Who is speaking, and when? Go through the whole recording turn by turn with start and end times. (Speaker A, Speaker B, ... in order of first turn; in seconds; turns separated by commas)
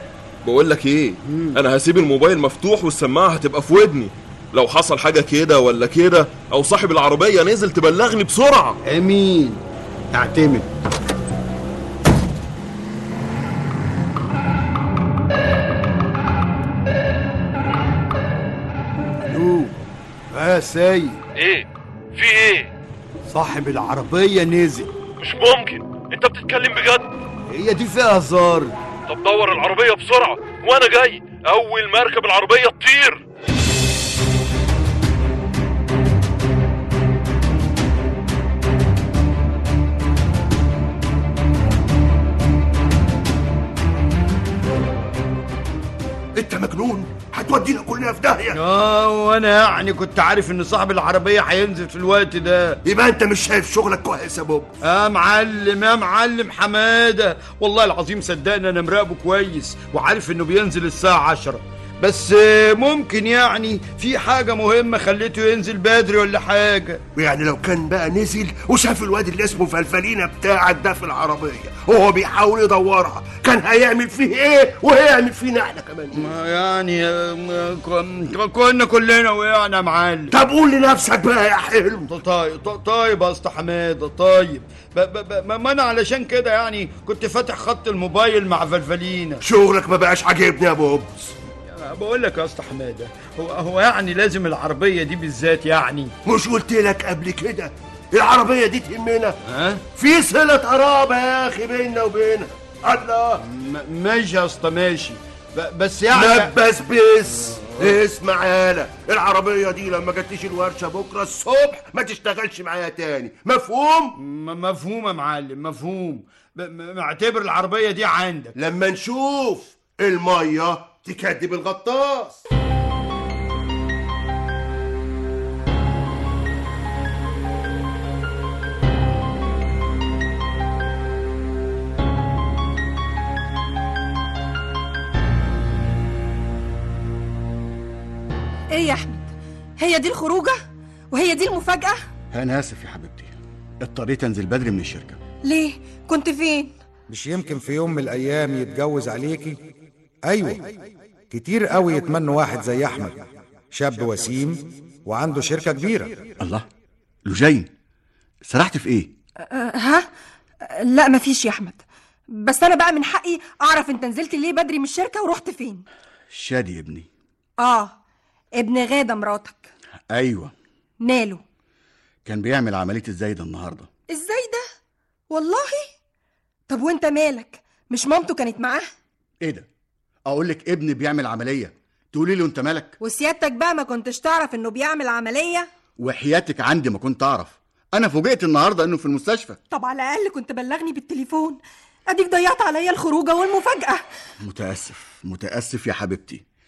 Speaker A: 0.4-8.8, Speaker B: 1.2-1.6, Speaker B: 8.8-9.6, Speaker B: 10.1-10.7, Speaker B: 19.2-19.8, Speaker B: 20.3-21.2, Speaker C: 21.4-21.6, Speaker C: 22.1-22.7, Speaker B: 23.3-24.9, Speaker C: 25.2-27.0, Speaker B: 27.5-28.7, Speaker C: 29.1-33.2, Speaker D: 46.4-48.6, Speaker B: 48.5-52.8, Speaker D: 52.8-54.7, Speaker B: 54.8-67.0, Speaker D: 67.2-76.2, Speaker B: 76.1-80.3, Speaker D: 80.3-82.1, Speaker B: 82.1-89.4, Speaker D: 89.4-91.3, Speaker B: 91.6-96.1, Speaker D: 96.2-99.3, Speaker B: 99.5-99.8, Speaker D: 99.9-103.4, Speaker B: 103.5-106.5, Speaker D: 106.1-114.1, Speaker B: 114.2-118.5, Speaker D: 118.5-122.4, Speaker E: 138.7-140.6, Speaker E: 141.1-142.0, Speaker F: 142.3-145.2, Speaker E: 145.4-146.7, Speaker G: 147.1-149.6, Speaker G: 150.2-150.7, Speaker G: 151.3-156.3, Speaker F: 156.4-156.6, Speaker F: 157.2-157.7, Speaker F: 158.4-159.1, Speaker E: 159.4-160.1, Speaker E: 160.6-165.8, Speaker F: 166.3-167.1, Speaker E: 167.6-168.0, Speaker E: 168.6-169.7, Speaker F: 170.1-170.5, Speaker E: 171.0-171.4, Speaker F: 172.2-173.9, Speaker E: 174.1-174.6, Speaker E: 175.3-175.9, Speaker E: 176.7-178.9, Speaker F: 179.4-179.7, Speaker F: 180.2-183.0, Speaker E: 183.0-185.7, Speaker F: 186.0-189.6, Speaker E: 189.7-194.0, Speaker F: 194.4-196.4